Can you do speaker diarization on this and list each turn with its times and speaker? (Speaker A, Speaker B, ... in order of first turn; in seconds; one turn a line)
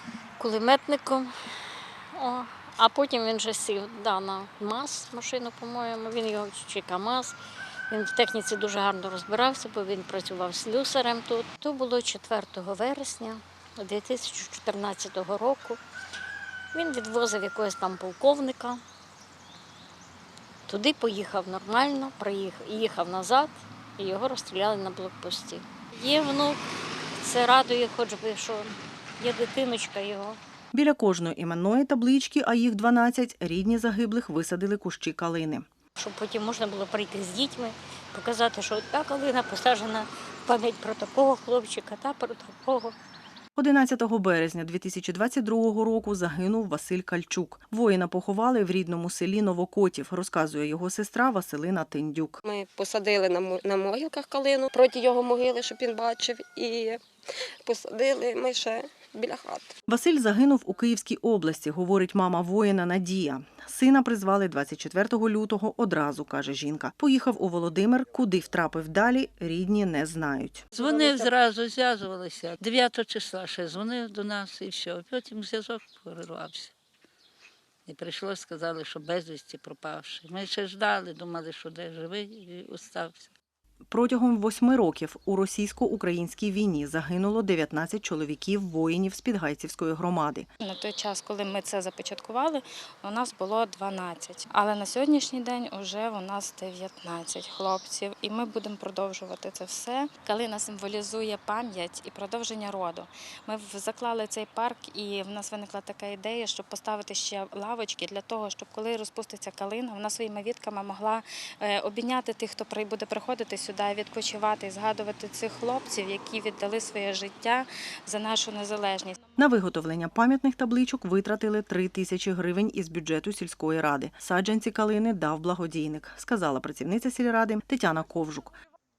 Speaker A: 0.4-1.3
Speaker A: 2.1-7.3
Speaker A: 7.9-15.8
Speaker A: 16.7-18.8
Speaker A: 20.7-26.6
Speaker A: 27.2-30.4
Speaker B: 30.7-35.6
Speaker A: 36.0-42.9
Speaker B: 43.5-52.4
Speaker C: 52.4-57.0
Speaker C: 57.6-59.8
Speaker B: 59.9-70.7
Speaker C: 70.7-71.3
Speaker D: 70.7-76.7
Speaker D: 77.9-83.3
Speaker B: 83.9-90.5
Speaker E: 90.6-119.2
Speaker B: 119.4-128.6